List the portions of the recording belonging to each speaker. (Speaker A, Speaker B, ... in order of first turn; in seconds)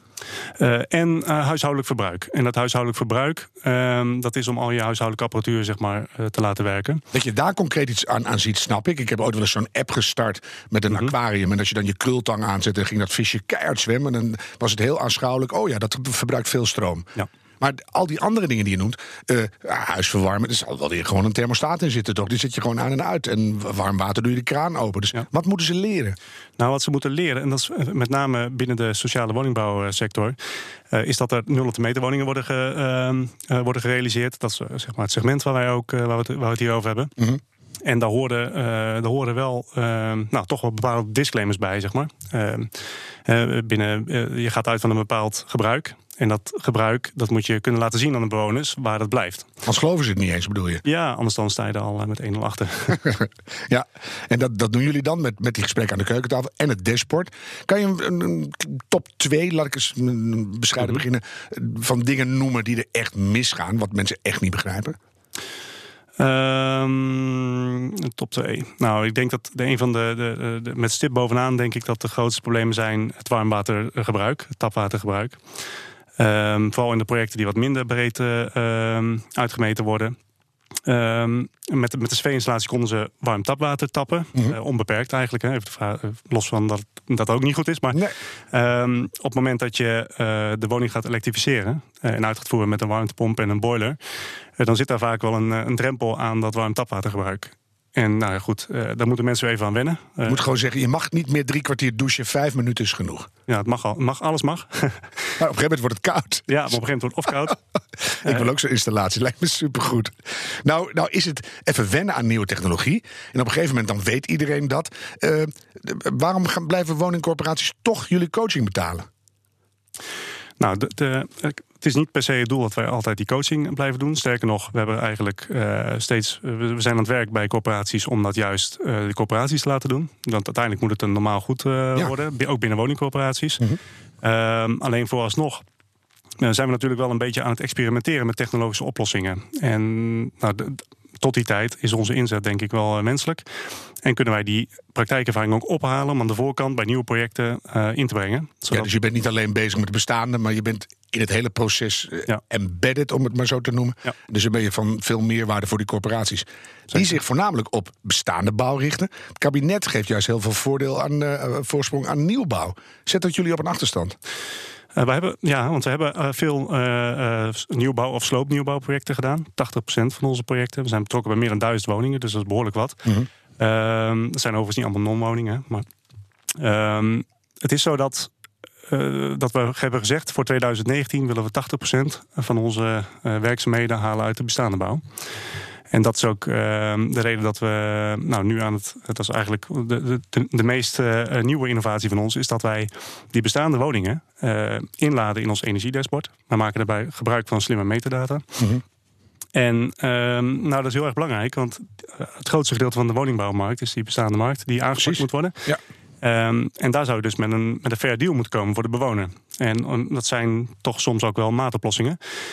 Speaker A: 0.6-7.0, 26.6-30.4, 30.9-37.1, 37.8-49.5, 50.8-53.1, 66.2-75.4, 76.2-80.2, 80.8-94.0, 94.6-100.4, 103.5-105.2, 106.5-107.6, 108.2-108.5, 120.6-133.7, 134.2-135.6, 136.4-143.4, 144.0-148.9, 156.9-157.2, 164.9-173.1, 173.6-175.8, 176.6-178.3, 178.9-185.0, 185.9-198.7, 199.5-205.6, 206.2-212.2
Speaker B: 7.1-17.1, 17.6-26.2, 49.6-50.8, 53.7-65.0, 100.2-103.3, 105.4-106.8, 108.0-119.1, 148.7-164.2, 205.0-205.8